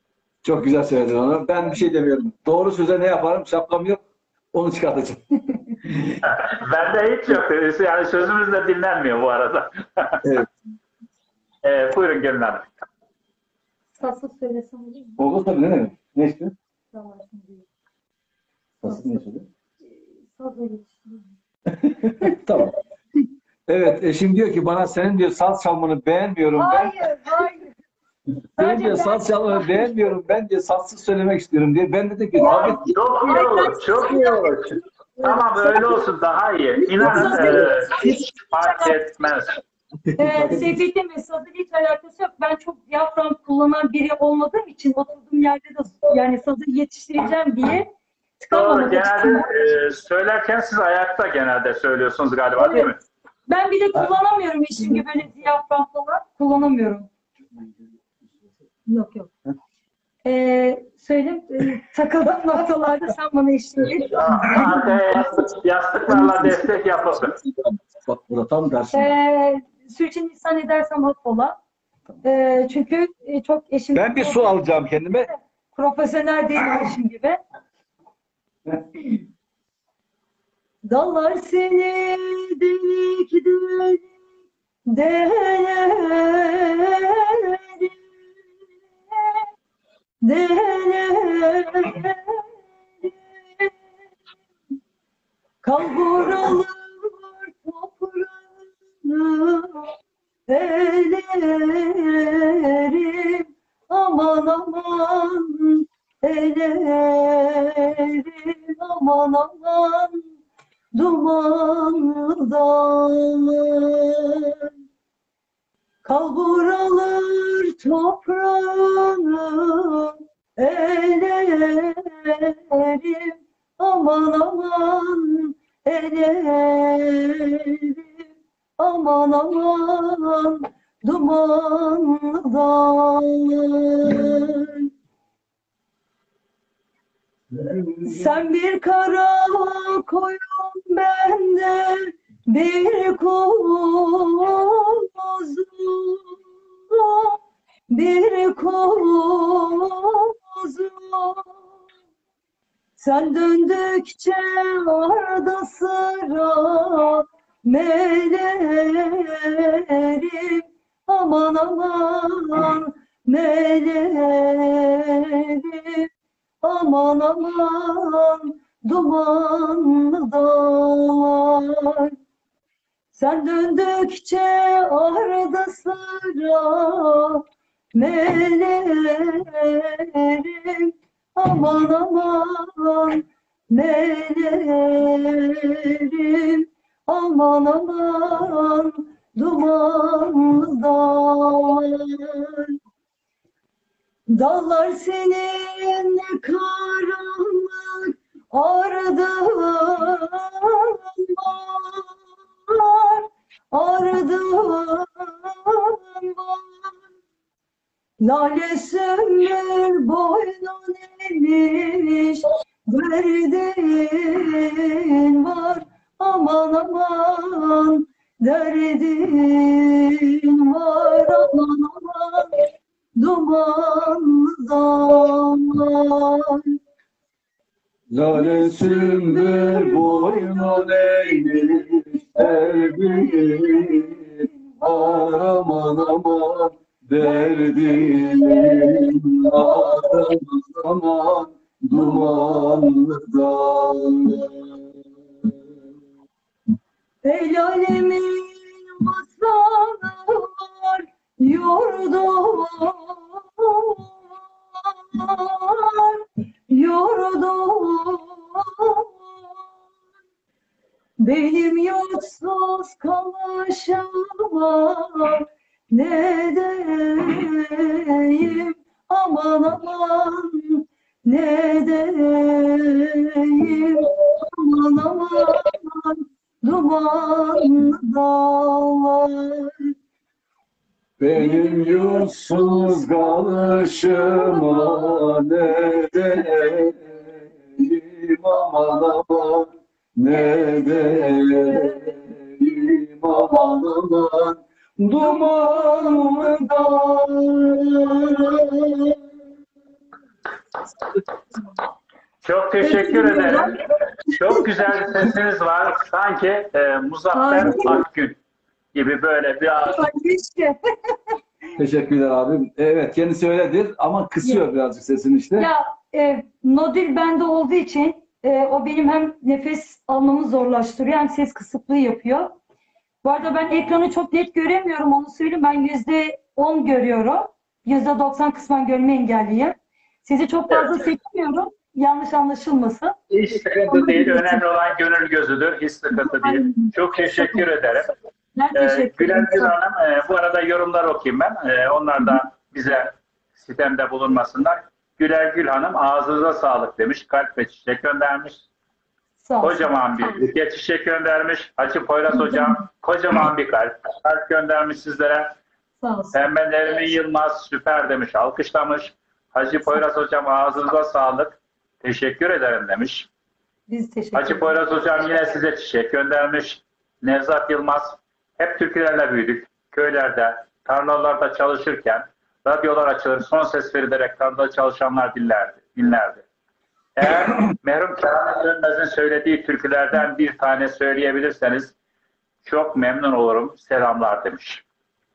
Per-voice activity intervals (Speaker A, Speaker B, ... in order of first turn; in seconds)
Speaker A: 0.4-4.0, 4.5-5.2, 5.8-6.2, 10.2-10.5, 15.2-16.6, 18.8-19.5, 21.8-22.8, 23.7-27.0, 28.6-32.9, 37.0-38.2, 40.0-40.8, 66.1-66.6, 67.1-69.2, 74.0-75.3, 137.5-138.3, 228.1-234.3, 234.8-244.8, 281.2-299.2, 307.6-308.0, 311.8-315.7
Speaker B: 6.2-10.2, 11.6-12.7, 32.4-39.6, 48.5-53.0, 64.1-67.3, 302.4-303.8, 304.3-308.4, 308.9-310.1, 330.7-331.0, 333.3-338.1, 338.7-348.6, 349.6-355.6, 356.3-363.3, 364.4-376.4, 377.2-381.9, 382.6-384.8
Speaker C: 14.0-15.2, 16.9-17.6, 18.9-19.2, 20.3-21.3, 26.6-27.7, 28.6-29.9, 32.4-34.5, 35.2-35.9, 36.9-38.2, 40.2-49.5, 52.6-52.9, 53.5-57.1, 58.9-59.3, 60.2-64.9, 68.9-71.6, 72.2-74.5, 75.8-77.4, 80.8-84.1, 84.9-87.9, 90.2-92.4, 93.0-93.7, 95.6-99.9, 100.5-110.2, 110.9-114.7, 116.0-128.0, 128.8-134.9, 138.0-146.4, 146.9-147.4, 147.9-151.6, 153.0-166.1, 166.6-172.1, 173.1-177.4, 177.9-192.8, 194.3-202.1, 202.7-206.9, 208.2-222.6, 223.2-226.8, 228.3-236.1, 237.2-240.3, 241.9-242.9, 247.2-254.2, 254.8-259.2, 261.2-279.9, 281.3-283.4, 284.0-285.3, 290.5-292.1, 293.4-293.8, 302.8-303.8, 307.3-308.0, 309.9-310.8, 315.6-322.6, 323.2-333.2, 333.9-334.6, 336.1-337.7, 338.6-339.7, 349.4-349.9, 352.3-352.8, 356.0-356.4, 363.9-364.8